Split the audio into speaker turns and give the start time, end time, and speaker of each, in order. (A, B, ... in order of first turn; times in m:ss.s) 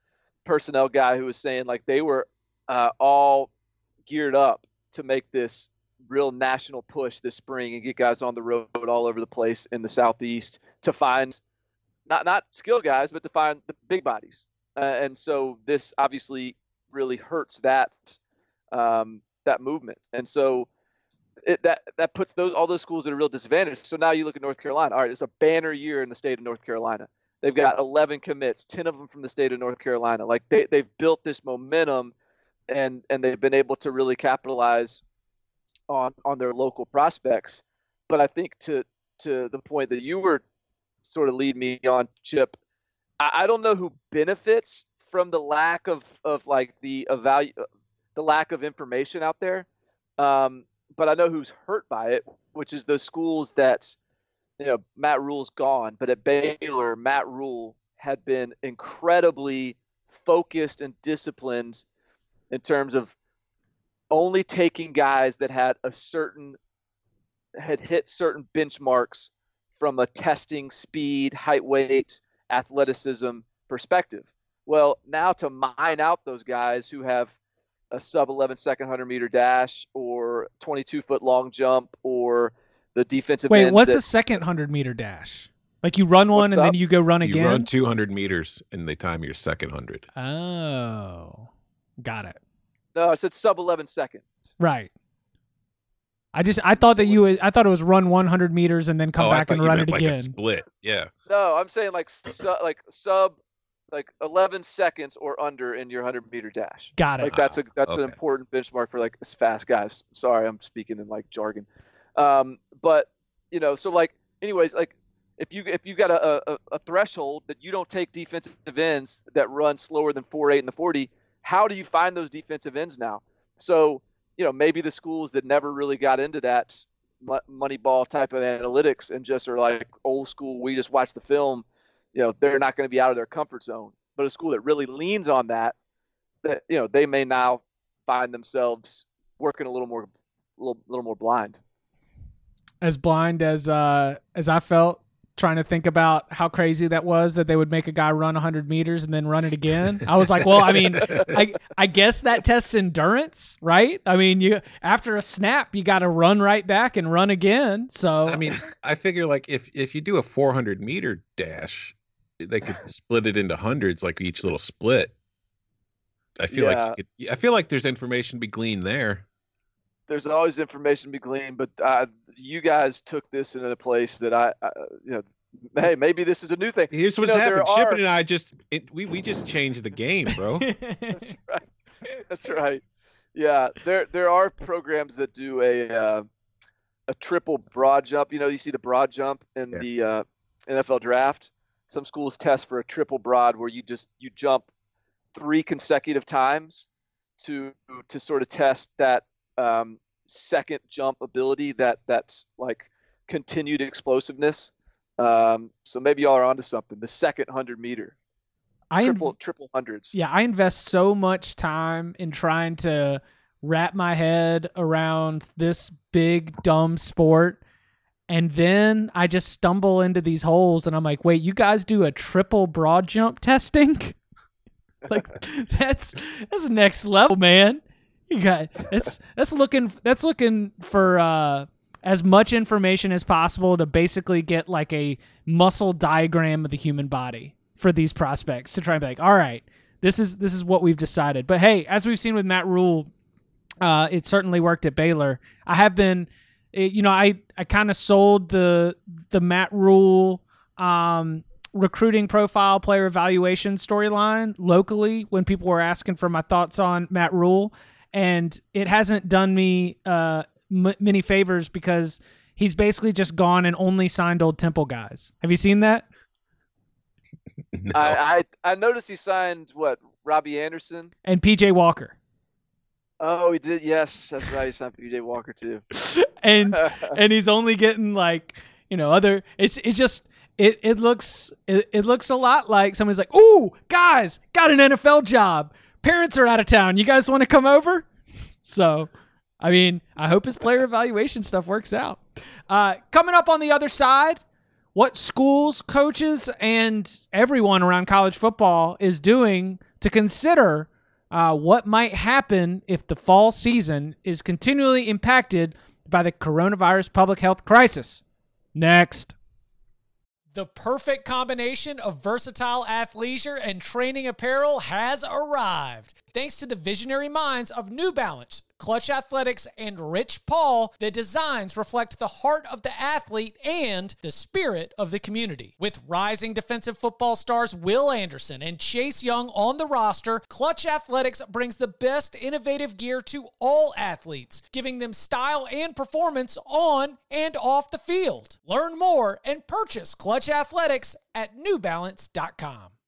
0:00.4-0:03.5 A
0:04.1-0:11.4 A
0:12.1-0:18.2 A
0:18.7-0:20.7 A
0:21.4-0:32.1 A
0:32.7-0:35.0 A
0:35.9-0:40.4 A
0:41.0-0:42.6 A
0:43.2-0:47.6 A
0:48.2-0:49.7 A
0:50.2-0:54.0 A
0:54.6-1:01.8 A
1:02.5-1:03.1 A
1:04.1-1:06.6 A
1:07.6-1:17.4 A
1:17.9-1:24.2 A
1:23.5-1:27.7 B
1:26.4-1:26.8 A
1:27.2-1:30.1 C
1:30.2-1:31.5 B
1:32.0-1:32.4 B
1:32.9-1:34.2 A
1:34.6-1:34.9 B
1:36.3-1:40.3 B
1:36.8-1:37.2 A
1:39.2-1:41.1 C
1:41.3-1:43.3 A
1:43.9-2:15.7 A
1:47.0-1:47.4 B
1:47.3-1:48.2 C
2:16.4-2:21.6 A
2:22.8-2:38.6 B
2:30.4-2:31.4 C
2:38.3-2:45.1 C
2:46.4-2:49.2 C
2:46.5-2:47.0 A
2:50.1-2:55.2 A
2:55.8-2:58.0 A
2:56.9-3:00.7 C
3:00.6-3:01.3 B
3:01.2-3:01.6 A
3:02.3-3:02.8 A
3:03.4-3:06.3 A
3:07.1-3:14.7 A
3:15.4-3:28.1 A
3:28.9-3:29.3 B
3:29.0-3:30.1 A
3:30.1-3:37.6 B
3:38.3-3:44.2 B
3:45.1-4:03.1 B
4:03.8-4:26.0 B
4:27.7-4:28.2 C
4:27.9-4:31.1 A
4:31.2-4:32.1 B
4:33.2-4:35.9 A
4:36.0-4:48.1 B
4:36.7-4:37.1 A
4:48.6-4:49.1 B
4:49.6-4:54.4 B
4:54.9-5:08.2 B
5:08.8-5:09.4 B
5:10.5-5:42.9 B